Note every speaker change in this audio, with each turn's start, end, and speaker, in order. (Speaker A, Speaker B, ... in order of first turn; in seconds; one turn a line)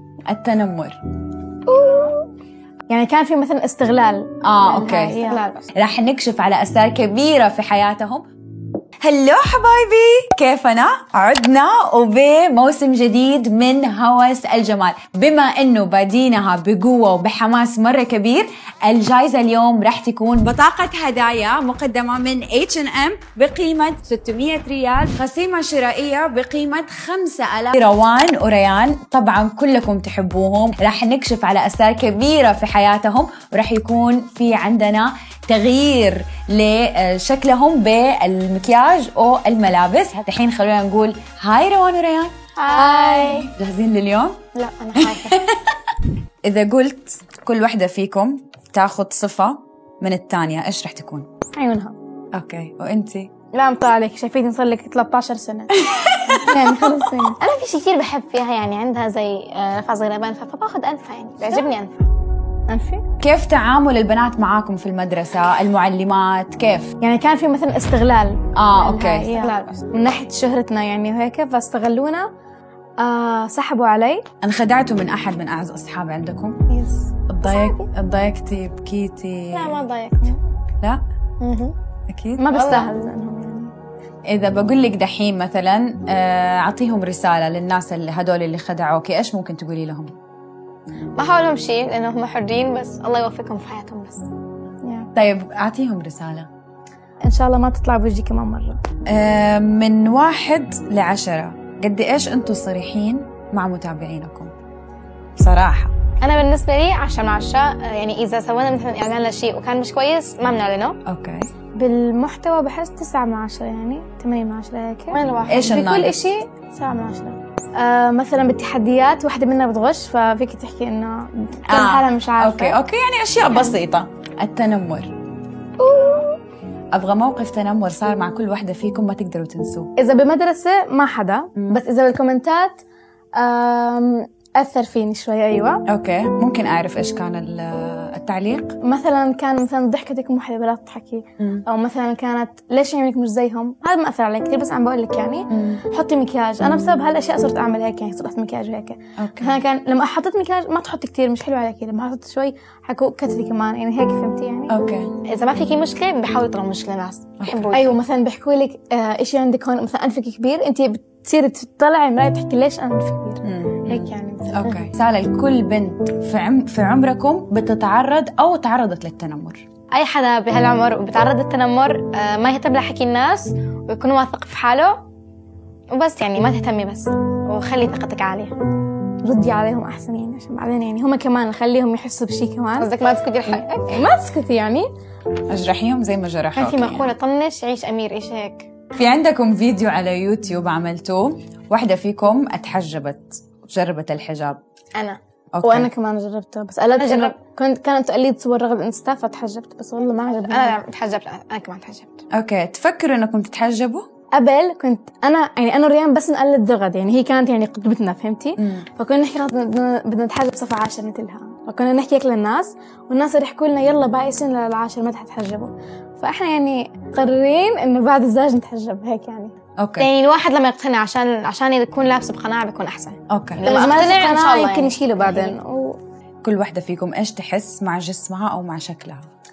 Speaker A: 0.2-1.0
Speaker B: 1.7-2.2
Speaker B: 2.9-5.4
Speaker A: 4.4-5.2
Speaker C: 5.1-5.7
Speaker A: 5.7-8.3
Speaker A: 9.0-42.3
Speaker C: 42.6-43.5
Speaker B: 42.6-43.5
Speaker A: 43.5-44.4
Speaker C: 44.5-45.4
Speaker A: 44.9-45.7
Speaker A: 46.4-51.3
Speaker B: 51.5-51.9
Speaker A: 52.3-53.3
Speaker B: 53.5-57.4
Speaker A: 55.8-56.9
Speaker C: 57.4-62.1
Speaker B: 61.4-61.7
Speaker B: 62.7-63.0
Speaker A: 63.2-66.9
Speaker B: 67.0-72.3
Speaker A: 68.5-69.3
Speaker C: 69.3-69.8
Speaker B: 73.0-74.2
Speaker A: 74.4-76.6
Speaker B: 76.7-77.1
Speaker A: 77.3-79.8
Speaker C: 79.5-80.4
Speaker C: 81.4-81.7
Speaker A: 82.1-82.5
Speaker B: 82.4-83.7
Speaker C: 82.5-82.9
Speaker A: 84.3-90.2
Speaker C: 91.2-94.3
Speaker B: 94.8-95.1
Speaker A: 95.1-96.5
Speaker B: 97.2-98.8
Speaker A: 99.0-104.5
Speaker A: 105.4-105.9
Speaker C: 106.2-111.0
Speaker A: 111.0-111.5
Speaker B: 111.7-122.8
Speaker C: 115.1-115.7
Speaker A: 115.5-116.3
Speaker A: 121.7-125.1
Speaker B: 125.8-126.4
Speaker A: 126.9-129.9
Speaker B: 130.0-132.8
Speaker B: 133.3-135.8
Speaker A: 135.9-138.8
Speaker B: 138.8-154.8
Speaker A: 141.4-141.6
Speaker A: 145.5-145.8
Speaker A: 149.2-149.6
Speaker A: 154.7-155.1
Speaker C: 155.2-158.0
Speaker A: 157.4-157.7
Speaker B: 157.7-163.4
Speaker A: 163.4-169.6
Speaker C: 163.9-164.8
Speaker B: 164.0-164.5
Speaker C: 169.9-175.0
Speaker C: 175.9-178.6
Speaker B: 179.2-182.9
Speaker C: 182.8-183.9
Speaker B: 183.4-184.9
Speaker A: 185.5-187.1
Speaker C: 186.5-188.7
Speaker A: 188.9-194.6
Speaker A: 195.5-195.9
Speaker B: 195.6-200.8
Speaker C: 196.9-197.4
Speaker C: 200.4-202.2
Speaker A: 202.3-204.1
Speaker B: 204.3-219.5
Speaker A: 208.6-208.9
Speaker A: 219.8-220.1
Speaker C: 220.0-225.6
Speaker A: 223.3-223.7
Speaker B: 223.6-226.0
Speaker A: 226.4-229.3